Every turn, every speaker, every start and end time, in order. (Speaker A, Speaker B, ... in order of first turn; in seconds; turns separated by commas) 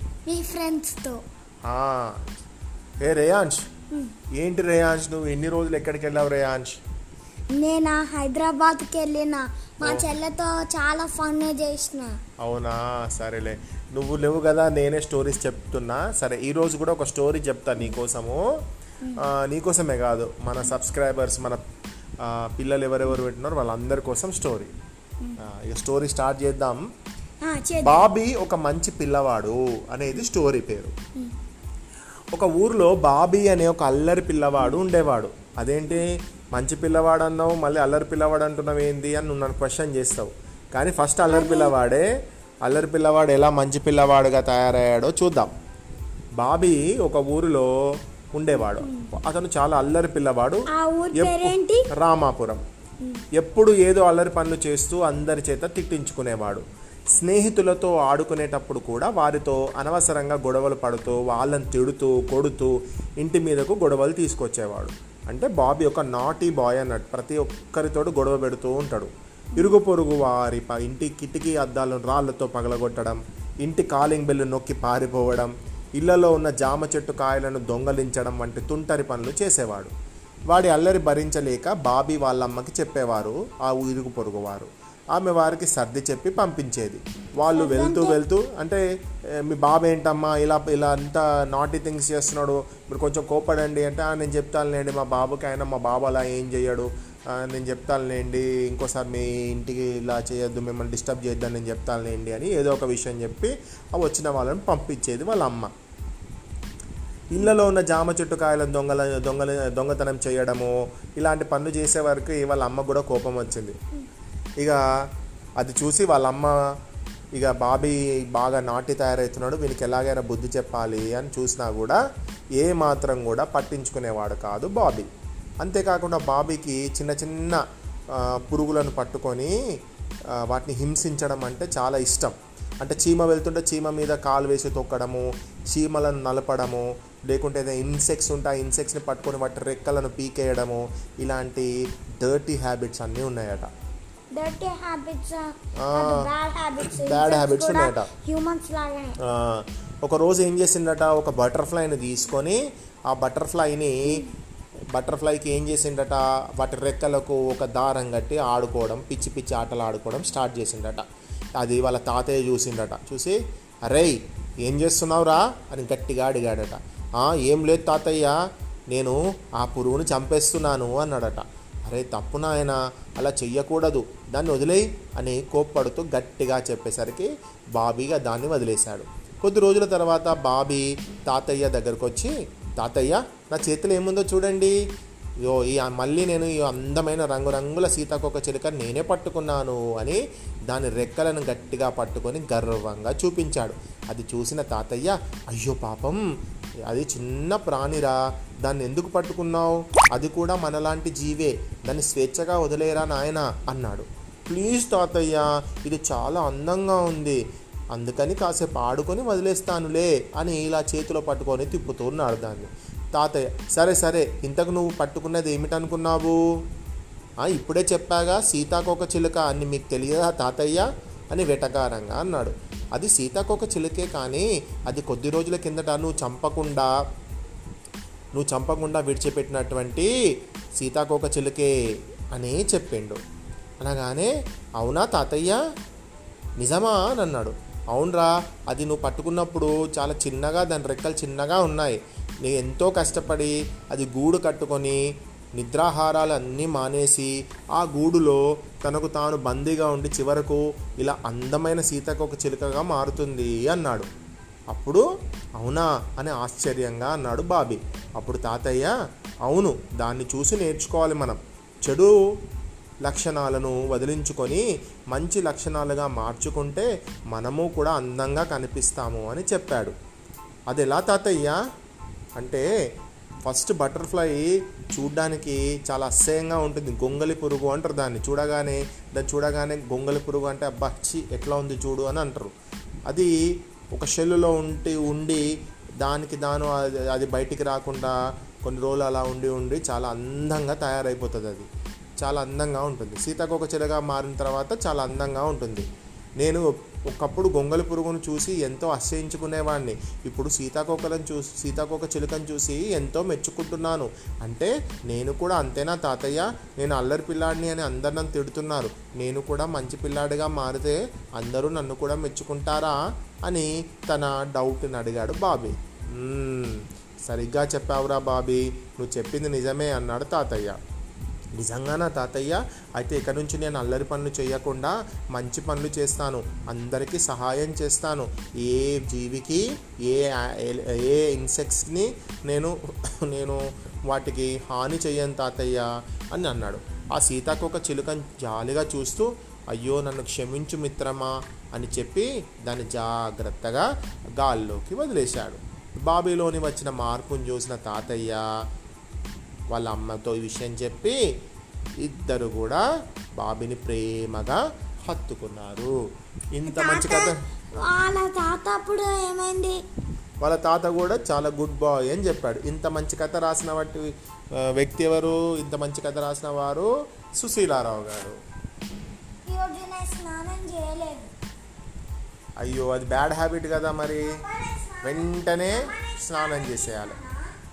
Speaker A: 0.2-1.2, Speaker B: 1.6-2.3, Speaker B: 3.0-3.6, Speaker B: 4.4-6.8, Speaker A: 7.5-12.1, Speaker B: 12.4-18.4, Speaker B: 19.2-21.6, Speaker B: 22.2-24.7, Speaker B: 25.4-26.8, Speaker A: 27.4-28.1, Speaker B: 27.8-30.9, Speaker B: 32.3-42.1, Speaker A: 41.3-41.7, Speaker B: 42.6-45.5, Speaker B: 46.4-47.7, Speaker B: 48.3-50.6, Speaker A: 48.8-49.1, Speaker A: 50.7-51.9, Speaker B: 51.1-52.6, Speaker B: 53.4-56.6, Speaker B: 57.2-79.9, Speaker B: 80.5-88.8, Speaker A: 87.5-88.2, Speaker B: 89.3-105.7, Speaker B: 107.3-113.8, Speaker B: 115.6-116.5, Speaker B: 117.3-122.0, Speaker B: 122.6-125.1, Speaker B: 125.6-129.6, Speaker B: 130.3-143.7, Speaker A: 144.3-149.2, Speaker B: 145.8-148.1, Speaker B: 149.2-154.2, Speaker B: 154.9-161.0, Speaker B: 161.6-168.3, Speaker B: 168.9-184.8, Speaker B: 185.4-196.2, Speaker B: 196.9-207.4, Speaker B: 207.9-216.4, Speaker B: 217.4-226.9, Speaker B: 228.3-230.1, Speaker B: 230.8-231.7, Speaker B: 232.3-233.2, Speaker B: 233.8-235.6, Speaker B: 236.6-245.0, Speaker B: 245.6-254.1, Speaker B: 254.7-255.0, Speaker B: 255.6-258.9, Speaker B: 259.4-262.1, Speaker B: 263.0-269.9, Speaker B: 270.7-271.6, Speaker B: 272.4-272.7, Speaker B: 273.4-282.5, Speaker B: 283.1-283.3, Speaker B: 283.9-285.5, Speaker B: 286.0-291.7, Speaker B: 292.2-295.9, Speaker B: 296.4-320.8, Speaker B: 321.6-343.9, Speaker B: 344.4-348.4, Speaker B: 349.7-351.2, Speaker B: 352.0-352.8, Speaker B: 353.4-355.9, Speaker B: 356.6-357.4, Speaker A: 356.7-359.8, Speaker B: 360.4-364.1, Speaker B: 364.6-368.4, Speaker A: 369.4-371.3, Speaker B: 372.6-374.4, Speaker A: 374.2-377.5, Speaker B: 375.0-377.2